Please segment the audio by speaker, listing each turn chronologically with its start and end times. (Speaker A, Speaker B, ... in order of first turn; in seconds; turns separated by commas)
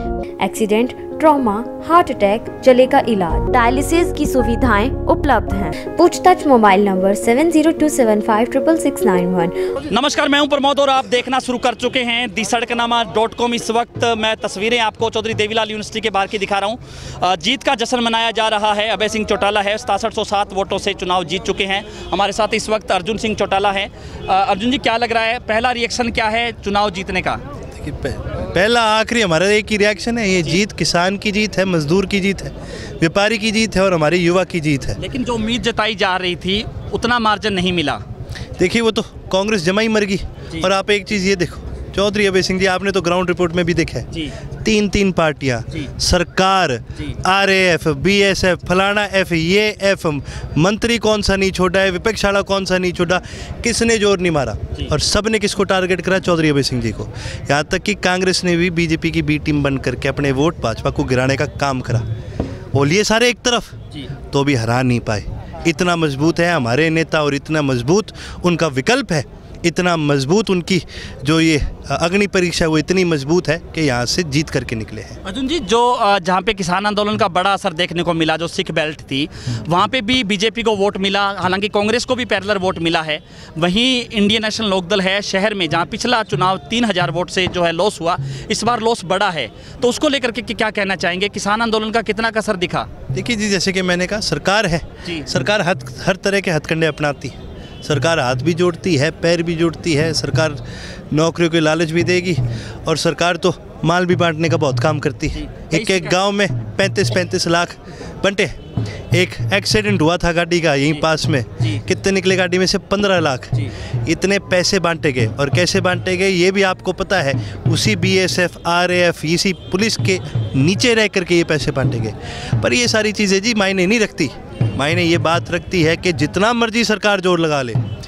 Speaker A: 0.4-9.7, Speaker B: 9.9-27.4, Speaker C: 27.8-35.0, Speaker B: 35.0-38.0, Speaker C: 38.6-44.1, Speaker C: 44.6-62.0, Speaker C: 62.7-63.8, Speaker C: 64.3-75.2, Speaker B: 75.2-92.9, Speaker C: 93.1-108.5, Speaker B: 105.3-106.2, Speaker C: 109.1-127.8